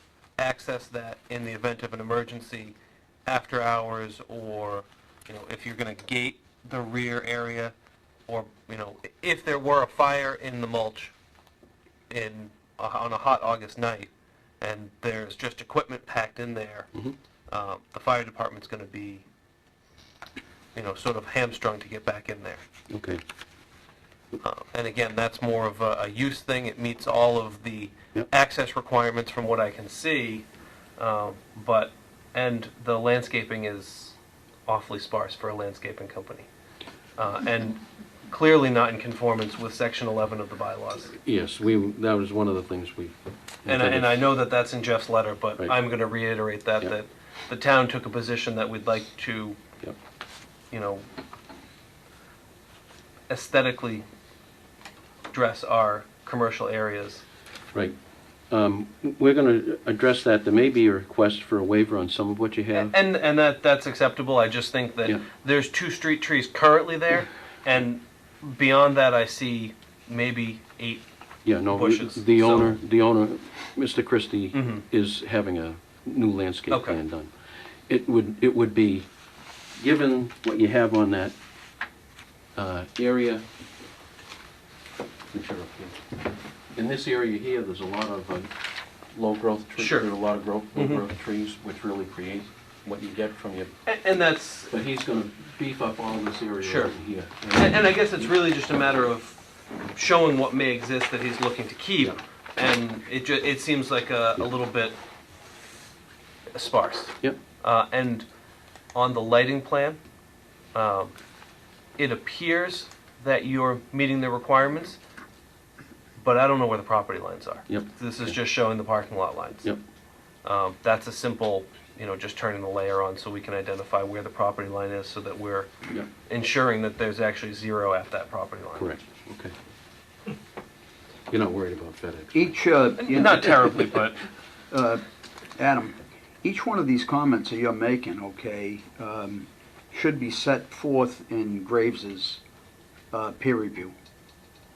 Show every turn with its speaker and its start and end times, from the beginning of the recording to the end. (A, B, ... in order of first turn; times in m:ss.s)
0:00.4-0:07.7 A
0:08.3-0:11.1 A
0:12.1-0:14.1 A
0:14.6-0:16.9 A
0:17.5-0:19.3 A
0:20.8-0:22.6 A
0:22.9-0:23.2 B
0:24.4-0:30.5 A
0:31.0-0:34.2 A
0:34.7-0:36.5 A
0:37.2-0:41.2 A
0:41.2-0:44.3 B
0:43.7-0:49.6 A
0:50.7-0:51.0 A
0:53.3-0:54.1 A
0:55.3-0:57.2 A
0:58.5-1:02.9 B
1:02.8-1:11.0 A
1:11.5-1:17.3 B
1:11.7-1:12.8 A
1:14.5-1:14.8 A
1:16.7-1:17.0 A
1:17.9-1:19.1 B
1:19.8-1:21.4 B
1:22.6-1:23.5 B
1:25.3-1:26.0 B
1:26.8-1:28.5 B
1:29.1-1:33.7 B
1:29.8-1:30.1 A
1:30.8-1:31.0 A
1:33.9-1:34.7 A
1:34.7-1:38.4 B
1:36.6-1:36.9 A
1:37.6-1:39.4 A
1:39.9-1:45.0 A
1:46.5-1:48.3 A
1:49.0-1:50.0 A
1:50.8-1:51.1 A
1:52.0-1:55.0 A
1:56.2-1:59.7 A
1:57.7-1:58.3 B
2:00.4-2:05.7 A
2:06.3-2:08.9 A
2:08.8-2:09.5 B
2:11.3-2:12.6 B
2:12.3-2:14.0 C
2:13.0-2:14.2 A
2:14.7-2:15.0 C
2:15.6-2:22.4 C
2:23.1-2:24.0 C